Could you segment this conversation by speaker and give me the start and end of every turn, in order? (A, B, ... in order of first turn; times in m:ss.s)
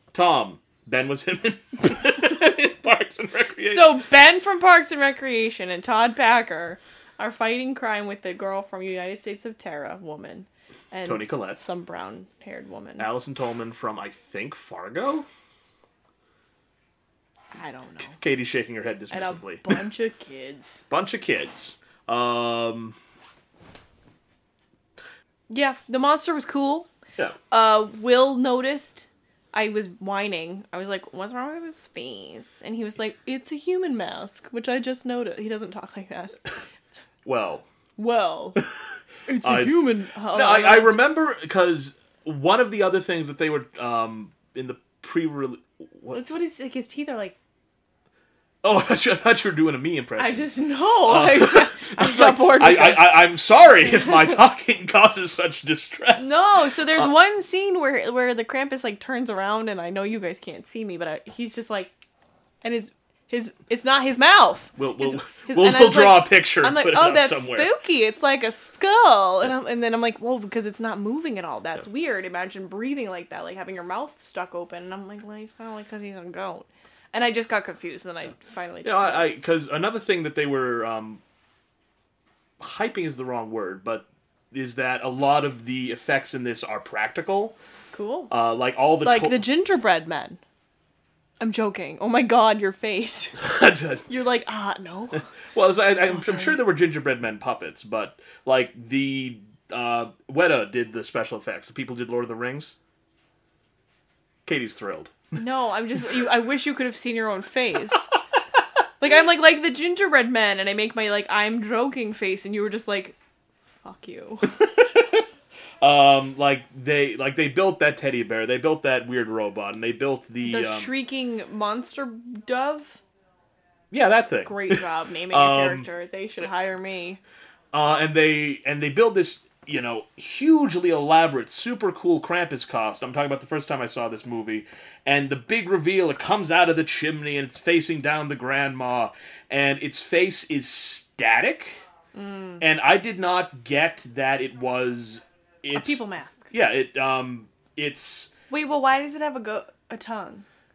0:00.1-0:04.0 A
0:03.6-0:13.1 B
0:11.0-0:11.6 A
0:13.0-0:15.3 A
0:17.5-0:18.2 B
0:18.0-0:19.8 A
0:19.1-0:20.8 B
0:20.9-0:23.0 A
0:25.5-0:26.9 B
0:27.5-0:36.3 B
0:37.2-0:37.6 A
0:38.0-0:38.6 B
0:39.3-0:41.0 B
0:39.4-0:46.2 A
0:46.1-0:47.4 B
0:48.6-0:57.1 A
0:50.2-0:53.3 B
0:53.8-0:54.4 B
0:56.2-1:01.9 B
1:02.6-1:19.3 B
1:04.8-1:07.7 A
1:18.8-1:21.2 A
1:22.6-1:27.6 A
1:27.9-1:28.3 B
1:28.3-1:29.4 A
1:29.0-1:30.4 B
1:31.4-1:33.4 B
1:33.4-1:34.0 A
1:34.0-1:35.3 B
1:35.5-1:42.7 A
1:36.1-1:36.6 B
1:44.4-1:45.3 A
1:45.3-1:48.1 B
1:49.0-1:53.2 B
1:53.8-1:54.5 B
1:54.5-1:55.2 A
1:55.8-2:00.9 A
2:00.4-2:03.0 B
2:03.9-2:05.9 A
2:04.4-2:07.2 B
2:07.7-2:21.8 A
2:22.1-2:22.6 B
2:22.6-2:28.3 A
2:25.7-2:26.5 B
2:28.5-2:30.4 B